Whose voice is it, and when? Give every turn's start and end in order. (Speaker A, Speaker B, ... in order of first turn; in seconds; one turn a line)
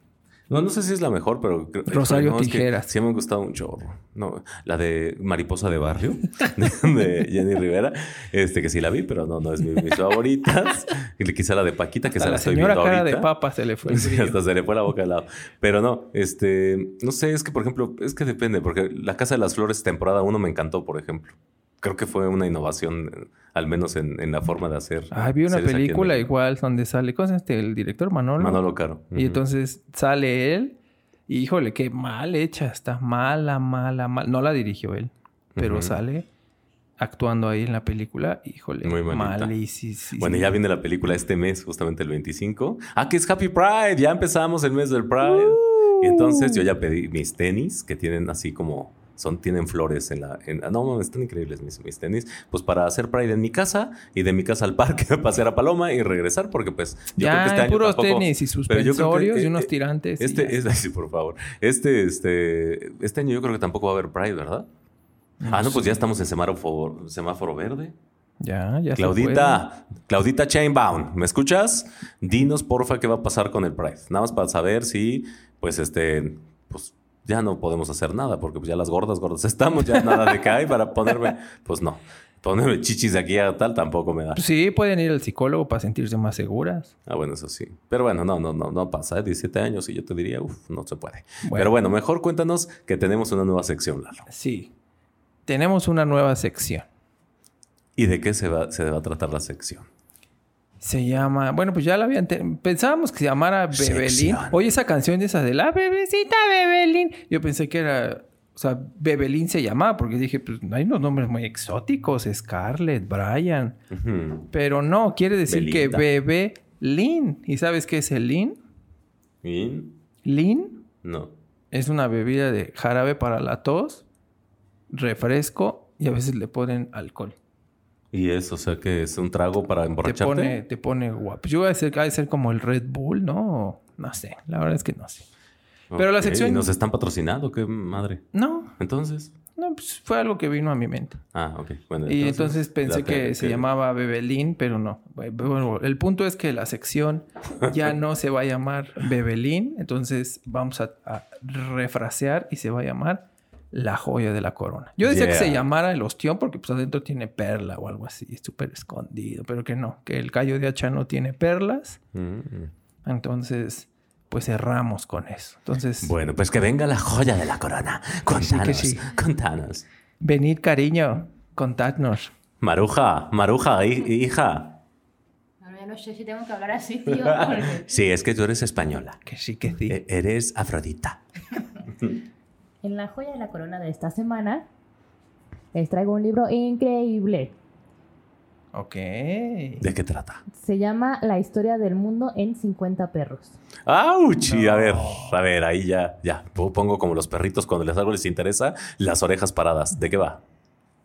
Speaker A: 0.5-13.3
Speaker B: 1.9-2.9
Speaker B: 12.1-14.4
Speaker A: 13.8-26.3
Speaker B: 25.1-30.8
Speaker A: 28.4-29.4
Speaker B: 31.3-36.2
Speaker A: 35.5-35.9
Speaker B: 37.0-40.5
Speaker A: 38.8-39.5
Speaker A: 40.2-64.7
Speaker B: 45.2-46.6
Speaker B: 57.2-60.6
Speaker B: 65.4-66.0
Speaker A: 65.5-67.9
Speaker B: 68.4-69.6
Speaker A: 69.0-84.4
Speaker B: 79.9-80.5
Speaker B: 84.3-86.9
Speaker A: 87.0-94.2
Speaker B: 91.4-91.7
Speaker B: 94.3-94.7
Speaker B: 95.5-96.8
Speaker A: 98.0-99.9
Speaker B: 100.8-113.8
Speaker A: 103.7-104.6
Speaker A: 113.9-114.5
Speaker B: 114.5-118.6
Speaker A: 115.5-116.1
Speaker A: 119.4-120.0
Speaker B: 120.2-120.8
Speaker A: 121.0-121.3
Speaker B: 121.7-124.0
Speaker B: 124.9-127.3
Speaker A: 128.1-130.6
Speaker B: 130.0-135.3
Speaker A: 135.9-138.2
Speaker B: 135.9-136.7
Speaker B: 138.3-138.7
Speaker A: 138.8-139.3
Speaker B: 139.6-141.2
Speaker A: 141.3-143.6
Speaker B: 142.1-162.0
Speaker A: 155.0-155.6
Speaker A: 162.1-162.7
Speaker B: 163.0-166.1
Speaker A: 166.0-169.8
Speaker B: 168.3-169.1
Speaker B: 170.2-172.3
Speaker A: 172.6-174.8
Speaker C: 175.6-177.9
Speaker A: 177.2-179.2
Speaker B: 179.2-180.0
Speaker A: 179.9-181.2
Speaker C: 182.8-184.7
Speaker C: 185.7-187.6
Speaker B: 188.7-189.8
Speaker A: 189.8-190.4
Speaker C: 190.5-193.6
Speaker A: 193.8-200.4
Speaker B: 194.4-195.4